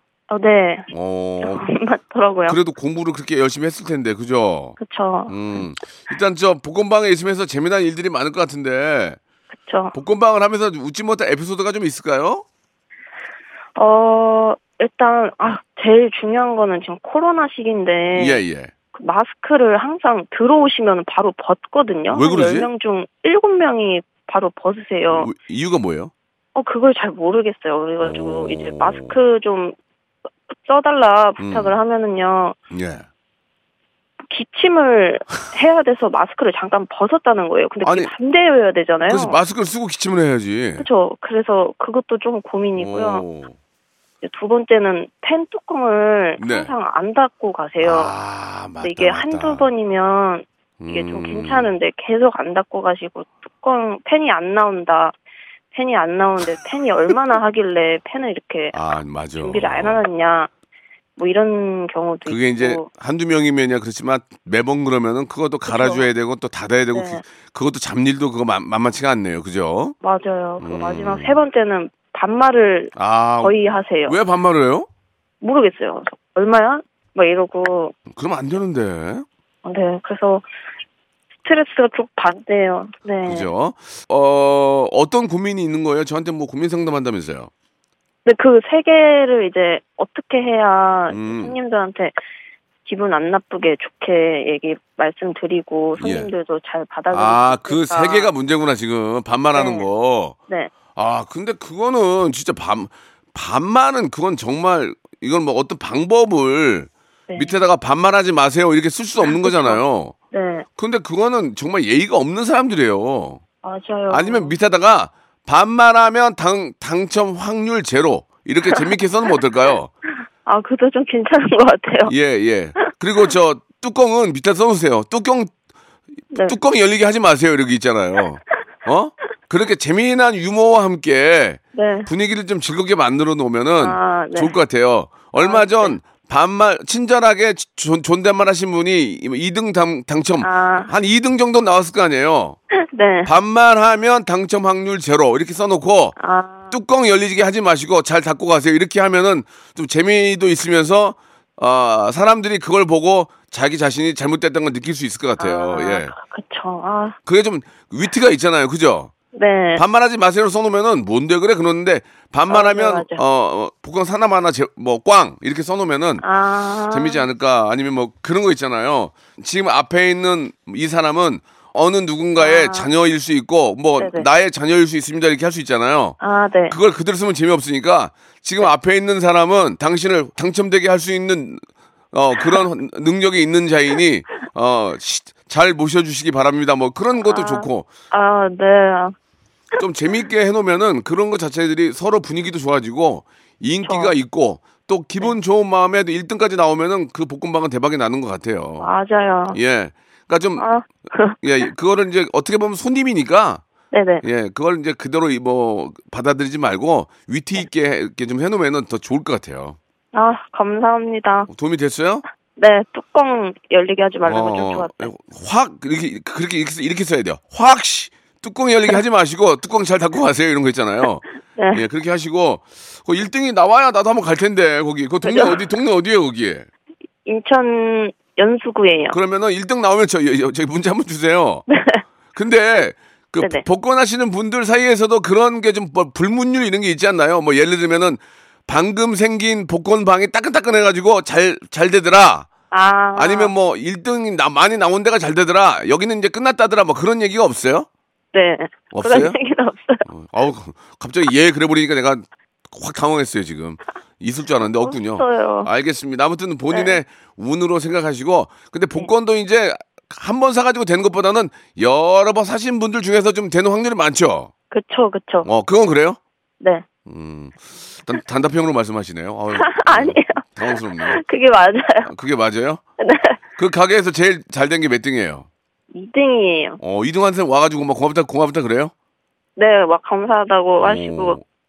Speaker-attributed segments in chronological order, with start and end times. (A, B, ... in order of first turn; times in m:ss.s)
0:00.3-0:02.6 A
0:00.9-0:01.7 B
0:02.5-0:04.8 B
0:04.8-0:05.7 A
0:05.3-0:09.2 B
0:09.5-0:09.9 A
0:09.9-0:12.4 B
0:13.8-0:18.4 A
0:18.1-0:18.7 B
0:18.9-0:25.3 A
0:22.1-0:22.7 B
0:25.1-0:26.1 B
0:26.5-0:29.8 A
0:28.0-0:29.2 B
0:30.5-0:32.6 A
0:31.4-0:31.7 B
0:32.7-0:33.0 B
0:34.3-0:39.4 A
0:37.8-0:38.1 B
0:39.0-0:40.8 B
0:40.8-0:43.2 A
0:42.8-0:43.5 B
0:44.2-0:48.1 A
0:46.4-0:46.7 B
0:47.8-0:49.7 B
0:48.8-0:55.1 A
0:50.8-0:51.7 B
0:55.7-0:58.8 A
0:58.7-1:00.0 B
0:59.4-1:00.5 A
1:01.2-1:02.9 A
1:02.2-1:10.0 B
1:05.6-1:06.1 A
1:06.9-1:07.2 A
1:10.0-1:14.2 A
1:10.6-1:11.4 B
1:13.0-1:14.9 B
1:15.4-1:17.9 A
1:18.1-1:19.3 B
1:19.6-1:20.4 A
1:21.4-1:23.5 A
1:23.2-1:27.5 B
1:28.2-1:32.1 A
1:31.1-1:31.6 B
1:32.8-1:38.3 A
1:36.0-1:36.3 B
1:37.1-1:40.4 B
1:39.5-1:39.9 A
1:40.9-1:50.1 B
1:47.3-1:47.6 A
1:49.2-1:50.6 A
1:50.8-1:53.4 B
1:53.6-1:54.5 A
1:54.1-1:59.9 B
2:00.4-2:02.1 A
2:02.1-2:05.5 B
2:06.3-2:06.6 A
2:06.4-2:22.6 B
2:11.7-2:12.1 A
2:13.8-2:14.5 A
2:15.4-2:16.0 A
2:20.4-2:20.9 A
2:22.7-2:23.3 A
2:23.2-2:26.2 B
2:26.2-2:26.7 A
2:26.7-2:36.1 B
2:35.4-2:37.2 A
2:37.2-2:39.1 B
2:39.3-2:39.8 A
2:39.8-2:46.2 B
2:42.5-2:43.2 A
2:46.2-2:47.2 A
2:46.9-2:56.2 B
2:52.4-2:52.9 A
2:54.0-2:54.3 A
2:56.2-2:56.8 A
2:56.7-3:07.9 B
3:07.2-3:09.1 A
3:09.8-3:18.9 B
3:13.8-3:14.1 A
3:18.8-3:19.6 A
3:19.5-3:20.7 B
3:20.6-3:21.4 A
3:21.4-3:23.6 B
3:23.9-3:24.2 A
3:24.2-3:29.8 B
3:30.1-3:31.5 A
3:31.5-3:32.2 B
3:32.6-3:35.1 A
3:34.2-3:46.7 B
3:41.6-3:41.8 A
3:45.2-3:45.6 A
3:47.2-3:49.2 A
3:49.1-3:51.6 B
3:51.7-3:52.0 A
3:52.3-4:02.5 B
3:53.4-3:53.6 A
4:02.7-4:03.5 A
4:03.2-4:07.9 B
4:08.3-4:10.0 A
4:08.9-4:09.4 B
4:10.1-4:24.5 B
4:14.7-4:15.7 A
4:16.7-4:17.0 A
4:24.7-4:25.5 A
4:25.4-4:26.2 B
4:27.0-4:31.2 B
4:29.5-4:30.4 A
4:31.0-4:32.1 A
4:32.0-4:32.8 B
4:33.0-4:33.4 A
4:33.6-4:35.5 B
4:35.9-4:36.8 A
4:36.8-4:38.9 B
4:39.6-4:41.4 A
4:40.8-4:41.4 B